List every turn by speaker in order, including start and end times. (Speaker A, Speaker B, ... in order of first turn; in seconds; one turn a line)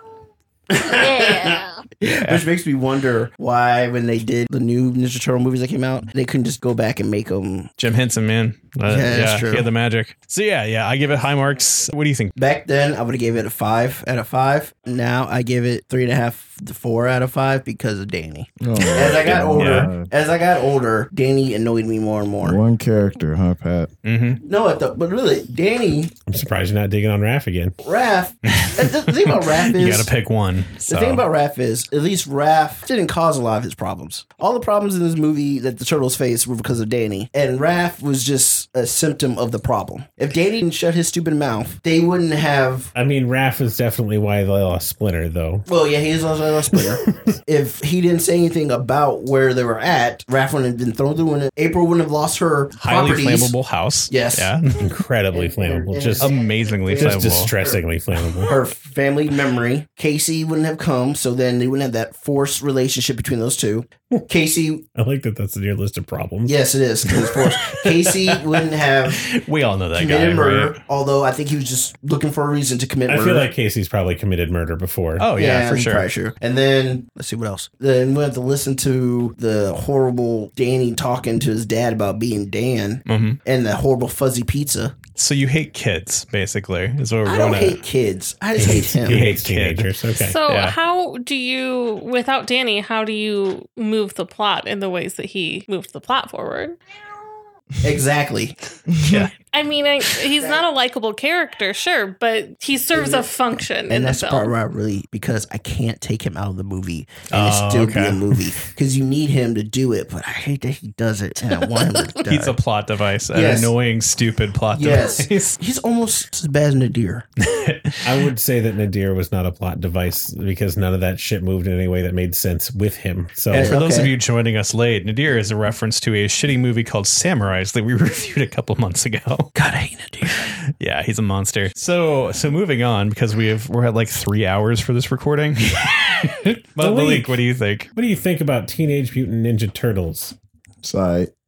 Speaker A: 0.7-7.7
Speaker B: 1.0-1.8
Speaker C: 2.0-2.4
Speaker C: 7.8-12.3
Speaker A: 8.9-9.7
Speaker A: 12.4-22.6
Speaker D: 18.6-20.1
Speaker C: 19.0-19.9
Speaker D: 22.4-23.9
Speaker C: 24.1-24.4
Speaker A: 24.4-26.1
Speaker E: 26.3-27.8
Speaker A: 27.8-30.1
Speaker C: 28.5-31.2
Speaker A: 30.9-42.9
Speaker E: 43.0-45.7
Speaker A: 45.7-53.5
Speaker E: 47.1-47.4
Speaker C: 52.8-54.9
Speaker A: 54.1-54.5
Speaker E: 54.8-56.4
Speaker A: 55.3-57.8
Speaker C: 56.2-57.5
Speaker E: 56.9-58.5
Speaker C: 58.2-58.5
Speaker A: 58.5-64.8
Speaker E: 65.0-66.6
Speaker A: 66.5-69.3
Speaker C: 67.4-70.8
Speaker A: 70.0-73.5
Speaker E: 73.1-75.3
Speaker C: 75.2-76.1
Speaker A: 75.4-85.0
Speaker C: 83.1-83.4
Speaker C: 85.2-87.8
Speaker A: 87.3-89.3
Speaker E: 88.6-90.4
Speaker C: 89.0-90.8
Speaker B: 90.1-96.8
Speaker A: 97.8-98.6
Speaker C: 99.0-99.3
Speaker B: 99.4-104.5
Speaker A: 100.4-100.6
Speaker A: 102.9-103.3
Speaker A: 103.9-112.6
Speaker C: 107.3-108.4
Speaker C: 112.2-115.6
Speaker A: 113.3-113.7
Speaker A: 114.7-117.3
Speaker C: 117.4-118.3
Speaker E: 118.0-123.8
Speaker A: 123.5-124.2
Speaker C: 123.5-129.5
Speaker A: 129.6-130.6
Speaker C: 130.3-137.9
Speaker E: 136.8-137.4
Speaker E: 138.0-140.3
Speaker D: 140.8-141.3